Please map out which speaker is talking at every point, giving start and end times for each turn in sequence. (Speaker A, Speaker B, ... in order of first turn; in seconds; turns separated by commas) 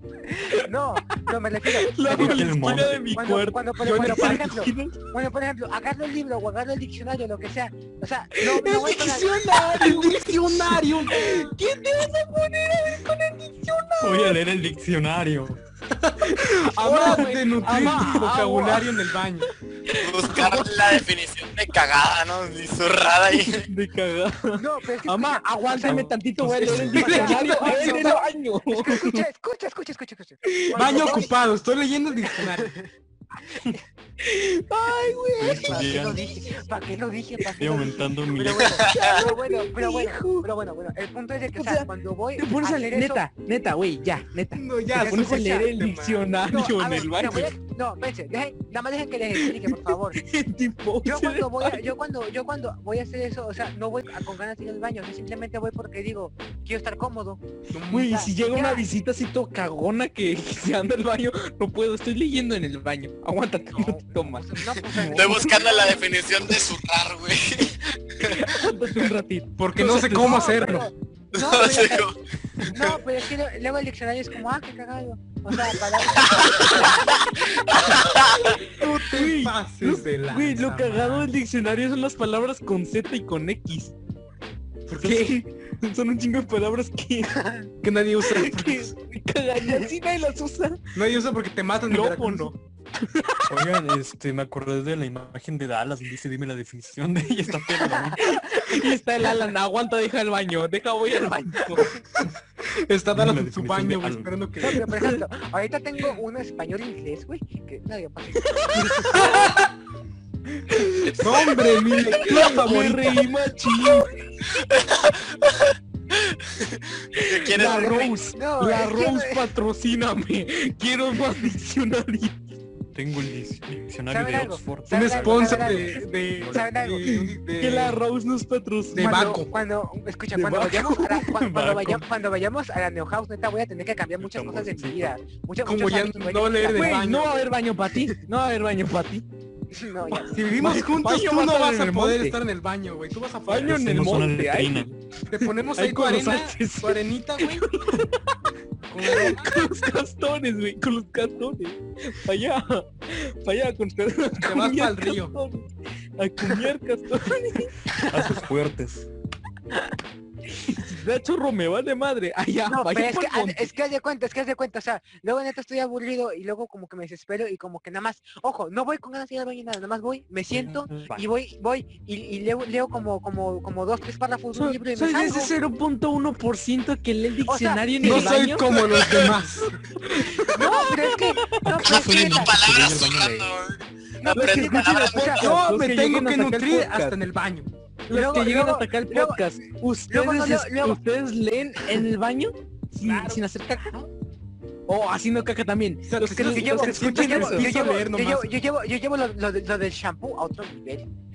Speaker A: 0.3-9.5, Speaker B: 1.6-4.9, Speaker C: 2.1-3.1, Speaker D: 3.8-4.5, Speaker B: 8.3-14.4, Speaker D: 9.6-11.5, Speaker C: 14.0-15.6, Speaker D: 15.9-19.5, Speaker B: 16.2-19.0, Speaker B: 19.9-21.1, Speaker E: 20.0-23.6, Speaker B: 23.3-29.2, Speaker A: 24.5-31.3, Speaker C: 25.8-27.4, Speaker D: 26.6-28.2, Speaker B: 30.4-31.3, Speaker D: 30.7-32.7, Speaker A: 32.2-32.8, Speaker B: 34.2-36.2, Speaker C: 35.4-36.2, Speaker A: 35.4-43.3, Speaker C: 37.6-38.8, Speaker E: 38.7-39.2, Speaker B: 38.8-40.5, Speaker B: 41.5-47.5, Speaker D: 44.5-46.3, Speaker A: 44.9-45.7, Speaker A: 46.5-50.2, Speaker B: 49.4-51.9, Speaker A: 51.0-57.4, Speaker D: 57.7-58.2, Speaker B: 57.9-65.7, Speaker A: 58.0-58.8, Speaker A: 63.7-66.0, Speaker E: 65.1-68.5, Speaker B: 68.2-70.9, Speaker D: 69.6-70.9, Speaker A: 70.1-72.1, Speaker E: 71.4-73.0, Speaker A: 72.7-77.2, Speaker E: 76.1-78.5, Speaker B: 76.3-76.9, Speaker B: 78.1-83.9, Speaker D: 78.7-81.3, Speaker D: 84.9-85.4, Speaker B: 85.0-87.4, Speaker A: 87.3-87.7, Speaker D: 87.8-88.9, Speaker B: 88.2-90.8, Speaker D: 90.9-92.5, Speaker B: 91.9-93.5, Speaker C: 93.5-98.4, Speaker A: 97.8-98.7, Speaker B: 98.2-101.9, Speaker D: 101.8-104.8, Speaker C: 103.1-104.3, Speaker A: 104.6-109.5, Speaker B: 104.8-105.2, Speaker B: 108.4-109.7, Speaker D: 108.7-109.7, Speaker B: 110.5-114.3, Speaker D: 111.2-113.3, Speaker E: 114.5-115.7, Speaker E: 116.3-118.1, Speaker B: 117.2-122.4, Speaker A: 117.6-119.4, Speaker C: 122.9-126.7, Speaker A: 124.1-127.1, Speaker D: 124.9-128.0, Speaker B: 127.0-129.3, Speaker D: 128.9-129.5, Speaker A: 128.9-137.0, Speaker B: 130.3-131.4, Speaker C: 131.4-132.0, Speaker C: 134.2-135.2, Speaker D: 135.6-137.5, Speaker B: 136.7-139.2, Speaker A: 139.7-140.5, Speaker D: 140.2-143.8, Speaker B: 140.5-142.4, Speaker B: 143.5-144.9, Speaker C: 143.6-145.0, Speaker D: 145.3-147.8, Speaker B: 145.4-148.4, Speaker D: 148.9-149.8, Speaker B: 149.0-157.7, Speaker D: 154.4-155.3, Speaker C: 158.0-159.1, Speaker B: 160.6-163.7, Speaker A: 162.7-175.5, Speaker C: 170.5-171.3, Speaker B: 174.5-179.4, Speaker A: 177.5-178.3, Speaker D: 178.0-179.7, Speaker E: 178.9-179.3, Speaker B: 180.0-181.7, Speaker A: 180.5-182.6, Speaker C: 181.6-183.5, Speaker E: 181.8-185.3, Speaker A: 184.2-185.5, Speaker B: 184.3-187.2, Speaker D: 185.2-187.7, Speaker B: 188.1-193.9, Speaker A: 188.1-191.0, Speaker D: 193.0-193.4, Speaker B: 194.9-197.7, Speaker D: 196.1-198.5, Speaker A: 196.5-201.1